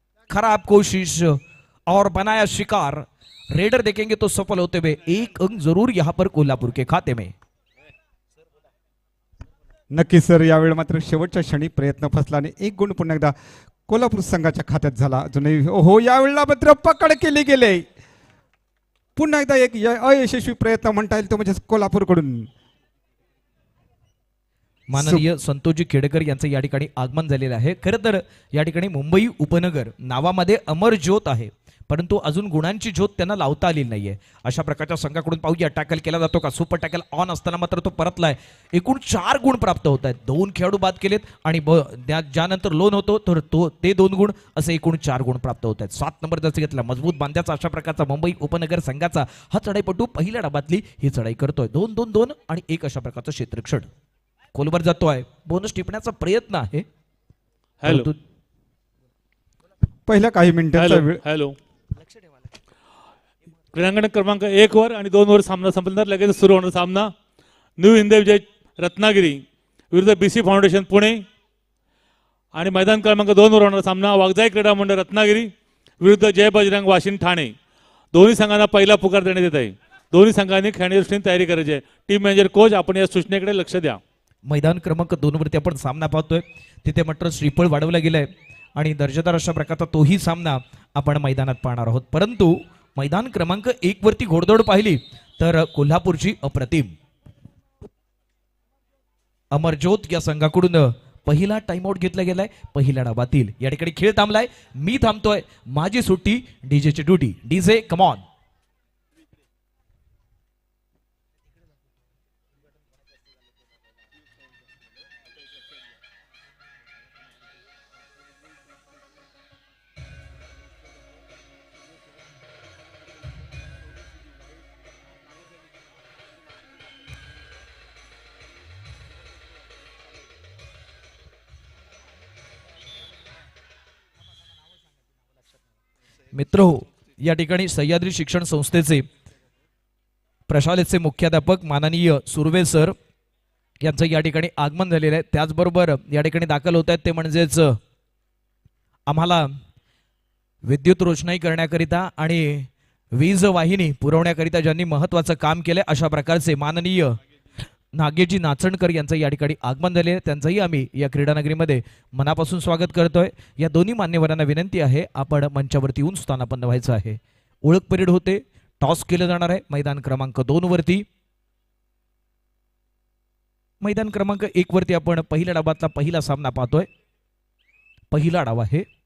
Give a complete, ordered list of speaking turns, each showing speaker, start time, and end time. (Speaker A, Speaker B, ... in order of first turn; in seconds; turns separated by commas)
Speaker A: 0.3-7.3, Speaker B: 9.9-13.3, Speaker B: 13.9-17.8, Speaker B: 19.1-22.5, Speaker A: 24.9-53.9, Speaker B: 24.9-25.2, Speaker A: 54.5-56.9, Speaker C: 57.8-58.1, Speaker A: 57.9-58.2, Speaker B: 60.1-61.2, Speaker C: 60.8-61.5, Speaker C: 63.7-67.1, Speaker C: 67.8-71.2, Speaker C: 72.5-77.5, Speaker C: 78.1-84.0, Speaker A: 84.5-96.9, Speaker A: 99.5-108.2, Speaker A: 136.3-139.1, Speaker A: 140.5-142.9, Speaker A: 143.8-147.8, Speaker A: 149.1-149.5, Speaker A: 150.7-157.2, Speaker A: 157.9-171.0, Speaker A: 173.8-176.9, Speaker A: 178.1-178.8